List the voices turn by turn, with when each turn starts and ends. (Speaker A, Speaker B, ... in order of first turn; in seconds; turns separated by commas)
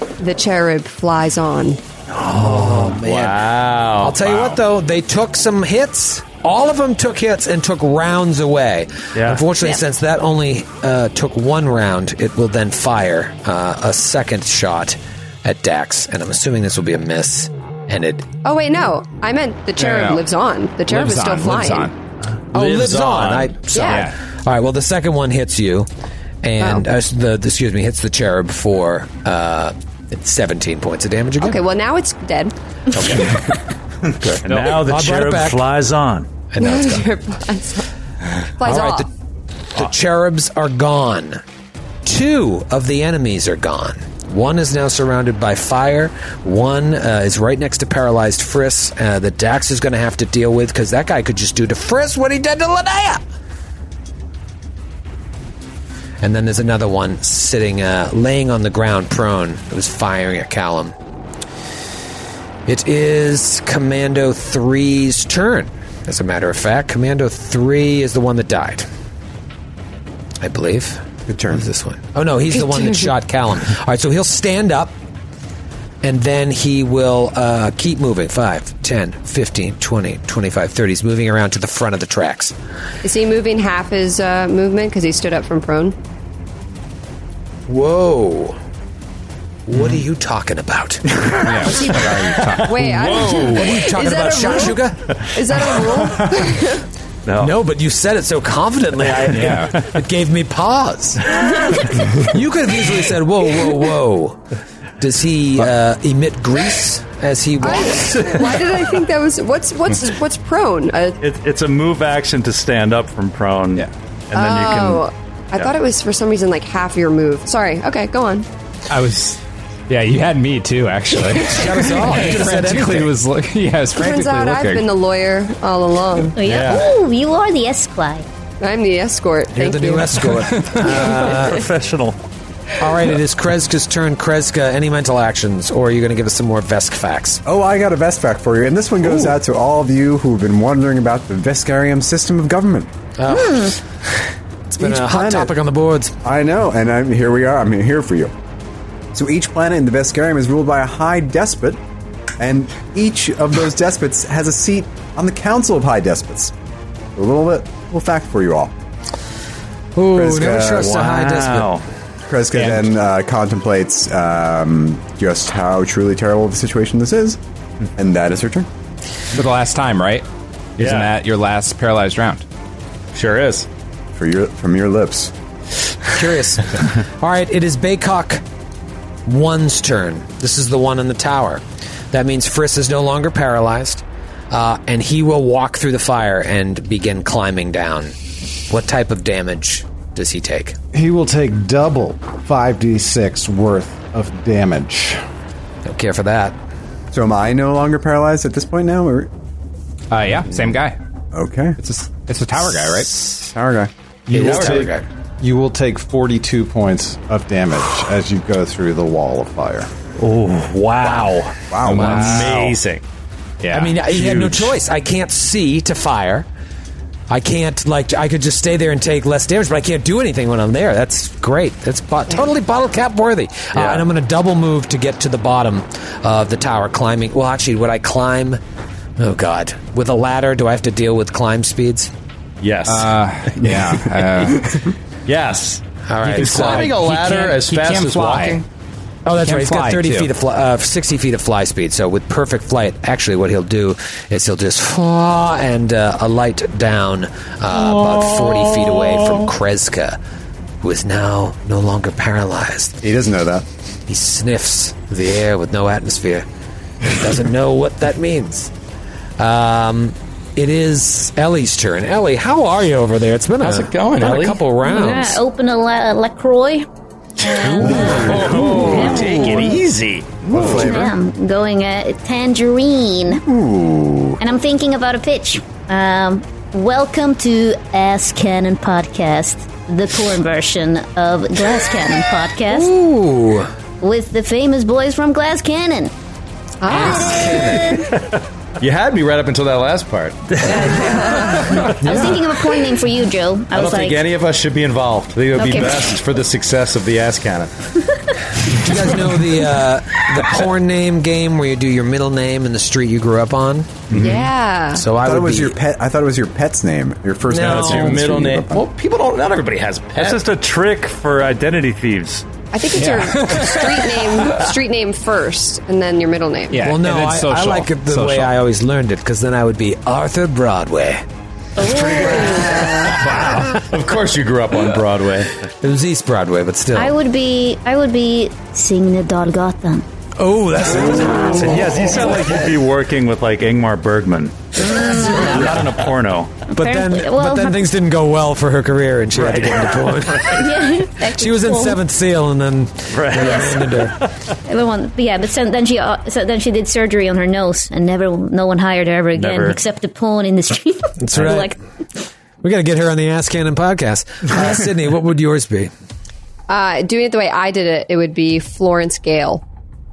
Speaker A: 0.2-1.8, Speaker B: 2.2-3.5, Speaker C: 2.6-4.6, Speaker B: 4.0-18.3, Speaker D: 9.2-9.5, Speaker A: 18.4-21.9, Speaker E: 19.8-20.3, Speaker E: 20.9-21.9, Speaker C: 22.5-23.8, Speaker B: 22.5-25.9, Speaker A: 23.7-24.1, Speaker E: 23.8-24.2, Speaker B: 26.4-31.6, Speaker A: 26.6-26.9, Speaker A: 31.4-32.5, Speaker D: 34.2-36.3, Speaker B: 34.2-35.6, Speaker B: 36.5-37.1, Speaker A: 36.6-37.8, Speaker A: 38.6-39.1, Speaker B: 38.6-39.1, Speaker B: 39.8-41.4, Speaker B: 42.0-53.2, Speaker B: 56.2-61.0, Speaker B: 62.7-68.9, Speaker B: 70.4-75.0, Speaker F: 71.3-71.7, Speaker A: 72.6-73.1, Speaker B: 76.0-82.5, Speaker A: 83.0-86.0, Speaker B: 87.7-88.6, Speaker B: 89.7-91.3, Speaker E: 91.4-93.1, Speaker A: 91.8-96.8, Speaker C: 92.3-93.6, Speaker B: 93.5-95.1, Speaker D: 97.3-97.6, Speaker B: 97.4-104.4, Speaker D: 99.0-99.9, Speaker E: 99.3-99.8, Speaker B: 105.0-108.5, Speaker A: 107.6-111.2, Speaker D: 111.2-115.7, Speaker A: 114.3-118.5, Speaker E: 118.9-124.9, Speaker B: 121.4-123.2, Speaker A: 124.0-126.4, Speaker G: 126.3-128.3, Speaker C: 126.4-126.9, Speaker D: 126.6-126.8, Speaker A: 128.6-130.2, Speaker B: 129.6-131.6, Speaker E: 130.4-130.8, Speaker D: 130.8-132.2, Speaker B: 132.8-137.4, Speaker F: 137.4-142.9, Speaker B: 143.2-143.8, Speaker B: 144.7-146.1, Speaker F: 144.8-145.6, Speaker F: 146.2-148.3, Speaker F: 149.1-151.8, Speaker F: 152.4-156.5, Speaker F: 157.2-158.7, Speaker B: 159.9-161.7, Speaker F: 160.1-161.0, Speaker D: 160.7-161.8, Speaker F: 162.3-167.4, Speaker E: 162.5-162.9, Speaker F: 168.0-168.7, Speaker E: 169.3-170.3, Speaker C: 170.8-171.1, Speaker E: 170.8-172.4, Speaker C: 173.1-173.7, Speaker F: 174.2-175.3, Speaker B: 176.1-178.4, Speaker B: 179.3-188.2, Speaker B: 188.7-190.8, Speaker H: 190.9-195.2, Speaker B: 195.8-196.6, Speaker F: 197.1-199.3, Speaker E: 200.1-201.0, Speaker F: 201.3-201.8, Speaker E: 201.8-203.3, Speaker F: 203.4-203.9, Speaker H: 204.3-209.9, Speaker B: 204.3-205.1, Speaker C: 204.3-204.9, Speaker D: 210.2-211.6, Speaker F: 211.7-212.4, Speaker C: 211.8-213.0, Speaker E: 211.9-212.5, Speaker B: 211.9-212.7, Speaker E: 213.6-214.1, Speaker B: 213.7-216.5, Speaker B: 217.3-228.6, Speaker C: 223.7-224.1, Speaker B: 229.2-232.1, Speaker C: 232.6-238.7, Speaker E: 232.9-234.9, Speaker B: 236.1-236.9, Speaker E: 236.2-238.7, Speaker B: 239.2-250.2, Speaker E: 239.3-240.3, Speaker B: 250.8-253.0, Speaker F: 253.0-253.7, Speaker B: 254.1-256.5, Speaker B: 257.0-258.7, Speaker B: 259.4-265.4, Speaker C: 263.6-264.6, Speaker G: 264.8-266.9, Speaker G: 267.4-269.8, Speaker B: 267.6-269.5, Speaker C: 267.9-270.9, Speaker F: 270.5-271.1, Speaker G: 270.5-273.4, Speaker F: 273.3-274.4, Speaker G: 274.4-282.9, Speaker B: 282.7-283.7, Speaker G: 284.0-286.1, Speaker A: 286.8-287.6, Speaker B: 286.9-288.1, Speaker G: 286.9-288.1, Speaker C: 288.8-290.6, Speaker A: 290.9-292.0, Speaker G: 291.8-294.2, Speaker C: 293.7-297.9, Speaker G: 295.6-296.1, Speaker B: 298.7-304.3, Speaker D: 304.1-304.5, Speaker A: 304.2-305.0, Speaker B: 305.0-305.8, Speaker F: 305.2-308.9, Speaker B: 307.5-308.2, Speaker C: 307.6-310.4, Speaker D: 310.2-312.4, Speaker A: 312.7-316.9, Speaker E: 312.9-314.6, Speaker E: 316.7-318.6, Speaker B: 316.8-321.2, Speaker G: 321.8-323.1, Speaker B: 321.9-323.9, Speaker A: 322.2-323.2, Speaker C: 323.2-325.6, Speaker B: 325.8-327.1, Speaker G: 326.9-330.1, Speaker B: 330.4-332.6, Speaker D: 331.5-336.6, Speaker B: 334.8-336.0, Speaker G: 336.7-337.9, Speaker B: 336.7-344.1, Speaker D: 339.5-339.8, Speaker G: 340.4-342.0, Speaker D: 343.1-344.3, Speaker G: 343.3-344.0, Speaker G: 344.7-351.8, Speaker D: 349.4-349.8, Speaker B: 351.2-351.8, Speaker B: 352.6-355.9, Speaker A: 356.7-359.6